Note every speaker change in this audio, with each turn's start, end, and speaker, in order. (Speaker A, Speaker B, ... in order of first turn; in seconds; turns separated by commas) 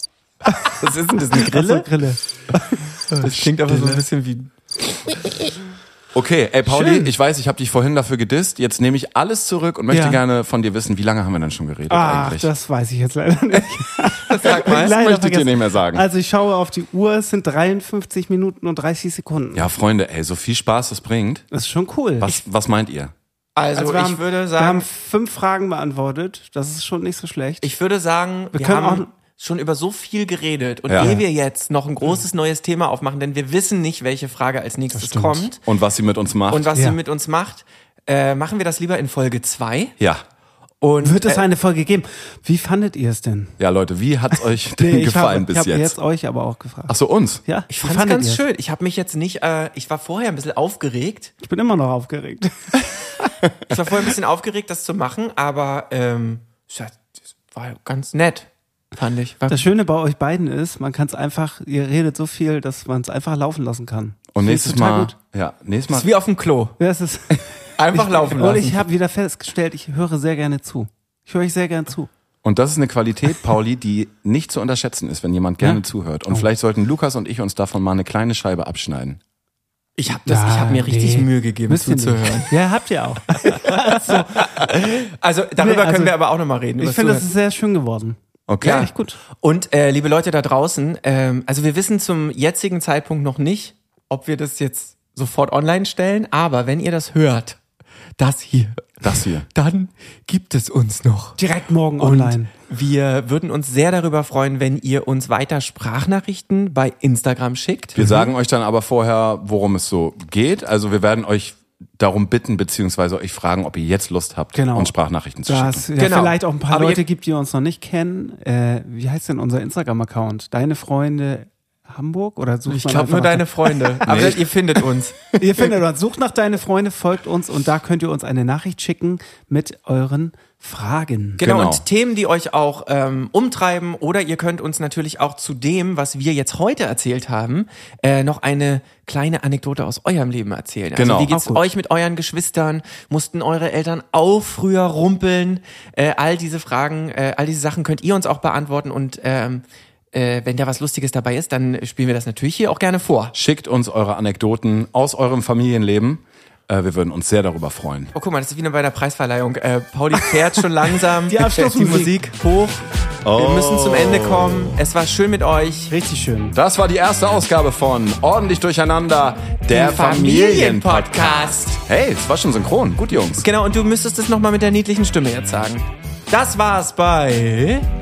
Speaker A: 0.5-4.0, Speaker B: 0.7-1.9, Speaker B: 3.1-4.5, Speaker C: 6.1-12.5, Speaker A: 6.7-7.1, Speaker A: 9.9-10.2, Speaker A: 11.9-19.7, Speaker B: 14.3-15.0, Speaker C: 14.4-16.1, Speaker C: 19.5-21.5, Speaker A: 21.5-22.4, Speaker C: 22.2-23.1, Speaker B: 23.6-24.9, Speaker A: 23.7-27.7, Speaker B: 27.6-35.6, Speaker A: 28.5-29.1, Speaker C: 30.9-31.2, Speaker A: 31.0-31.2, Speaker A: 34.9-35.5, Speaker C: 35.6-36.7, Speaker B: 36.5-40.0, Speaker B: 40.8-41.5, Speaker A: 41.0-43.6, Speaker C: 43.6-46.0, Speaker A: 44.8-48.4, Speaker C: 46.9-47.4, Speaker B: 47.7-51.3, Speaker A: 51.4-52.9, Speaker B: 53.7-57.0, Speaker B: 57.5-59.6, Speaker A: 59.5-65.1, Speaker C: 64.3-66.1, Speaker B: 65.9-66.8, Speaker A: 66.8-72.1, Speaker B: 67.8-68.8, Speaker C: 72.4-79.2, Speaker A: 75.6-76.5, Speaker B: 80.0-82.5, Speaker A: 80.3-84.5, Speaker B: 83.7-87.3, Speaker A: 85.6-86.2, Speaker A: 86.8-89.2, Speaker C: 88.5-88.9, Speaker B: 88.6-97.6, Speaker B: 98.2-99.0, Speaker C: 99.0-99.5, Speaker B: 99.5-101.4, Speaker A: 101.4-102.5, Speaker B: 102.0-108.0, Speaker C: 108.0-115.9, Speaker A: 108.0-108.3, Speaker A: 114.5-114.9, Speaker A: 115.5-124.3, Speaker B: 116.0-117.0, Speaker B: 122.7-125.2, Speaker C: 124.1-124.5, Speaker A: 125.4-131.4, Speaker B: 131.4-153.3, Speaker C: 131.4-131.8, Speaker C: 140.9-141.3, Speaker A: 141.3-141.6, Speaker C: 153.3-158.1, Speaker B: 158.1-165.9, Speaker A: 161.3-162.1, Speaker C: 163.2-164.8, Speaker A: 165.9-166.6, Speaker C: 166.5-173.5, Speaker B: 169.7-171.8, Speaker B: 173.4-177.8